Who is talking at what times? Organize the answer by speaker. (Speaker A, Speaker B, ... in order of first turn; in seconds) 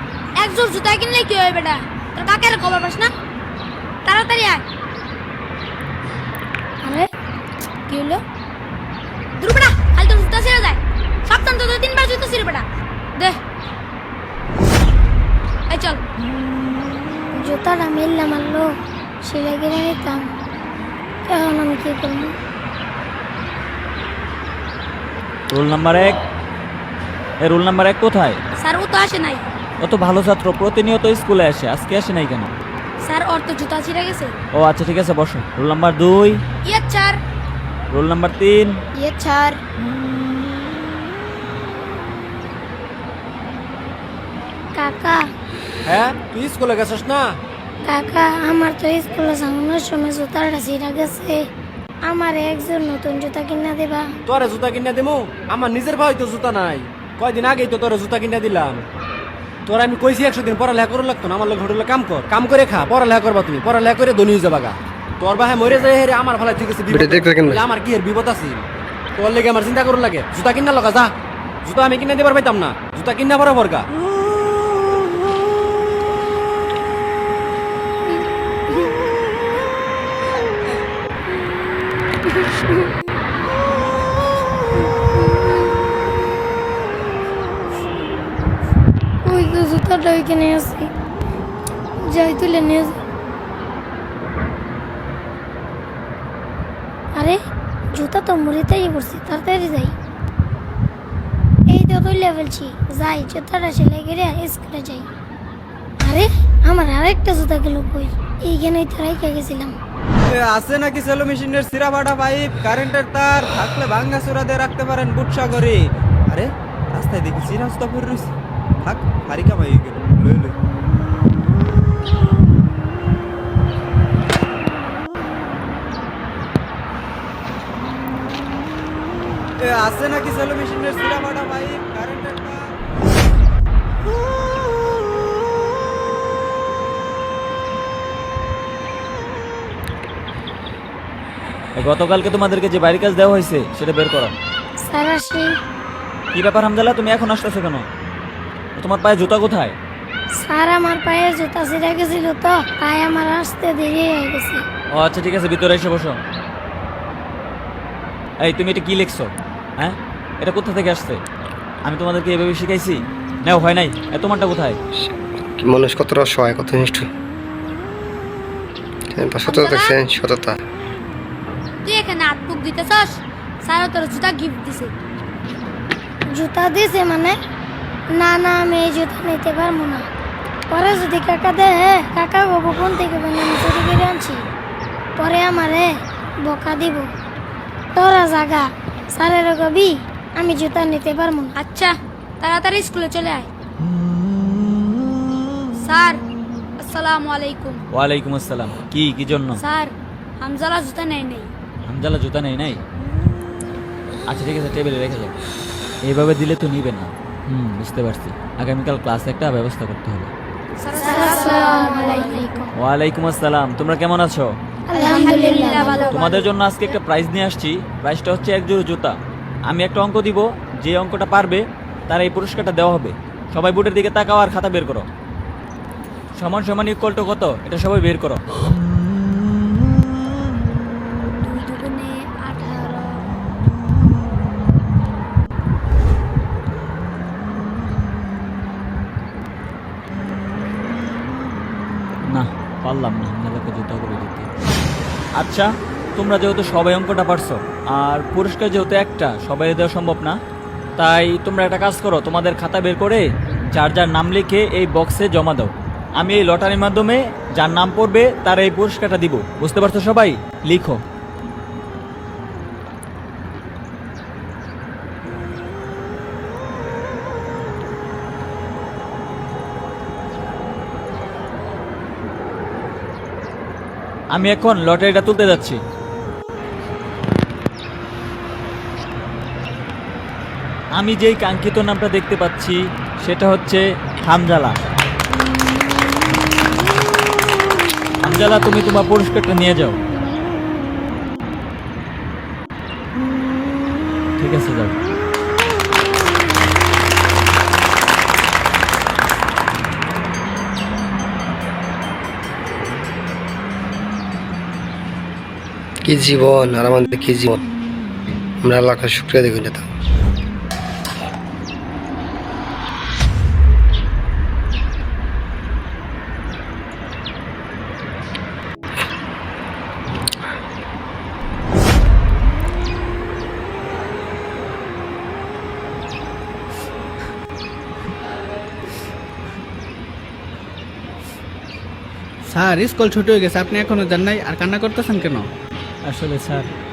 Speaker A: 0.4-3.1, 4.0-4.6, 7.9-8.2, 9.4-13.4, 15.7-16.0, 28.6-29.4, 33.0-34.4, 36.6-37.2, 169.5-170.0, 171.8-174.9, 191.6-193.5, 195.8-196.2, 196.8-197.8, 199.6-201.5, 210.8-212.5, 214.9-216.8, 231.4-233.2
Speaker B: 6.8-7.1, 17.3-18.7, 19.2-20.3, 21.3-22.4, 39.0-39.6, 44.8-45.2, 47.9-51.4, 52.0-54.1, 85.2-85.8, 89.2-90.9, 92.1-93.0, 97.9-100.0, 101.7-105.1, 106.0-109.8, 144.8-145.5, 150.3-154.6, 176.3-177.4, 178.1-180.1, 180.7-184.5, 185.2-187.1, 187.9-191.5, 211.0-212.7, 214.9-216.2
Speaker C: 25.5-26.2, 27.4-28.4, 29.8-32.5, 34.5-36.4, 37.9-38.7, 141.8-144.3, 146.3-147.9, 148.8-149.8, 154.9-156.2, 158.4-161.2, 161.8-164.8, 197.9-199.6, 201.9-202.8, 204.3-205.4, 206.1-210.3, 212.8-214.5, 216.0-219.2, 219.7-225.1, 226.4-228.4, 242.3-244.5, 245.3-250.4, 251.0-261.0, 274.3-275.8, 280.9-284.8, 288.2-290.0, 294.4-294.9, 336.1-336.7
Speaker D: 45.9-47.4, 54.3-58.9, 59.7-68.6, 69.2-71.1, 71.6-73.9
Speaker E: 66.9-67.6, 165.0-167.1, 169.1-170.6, 306.1-307.6, 308.6-309.8
Speaker F: 110.3-120.6, 129.6-132.8
Speaker G: 332.5-335.5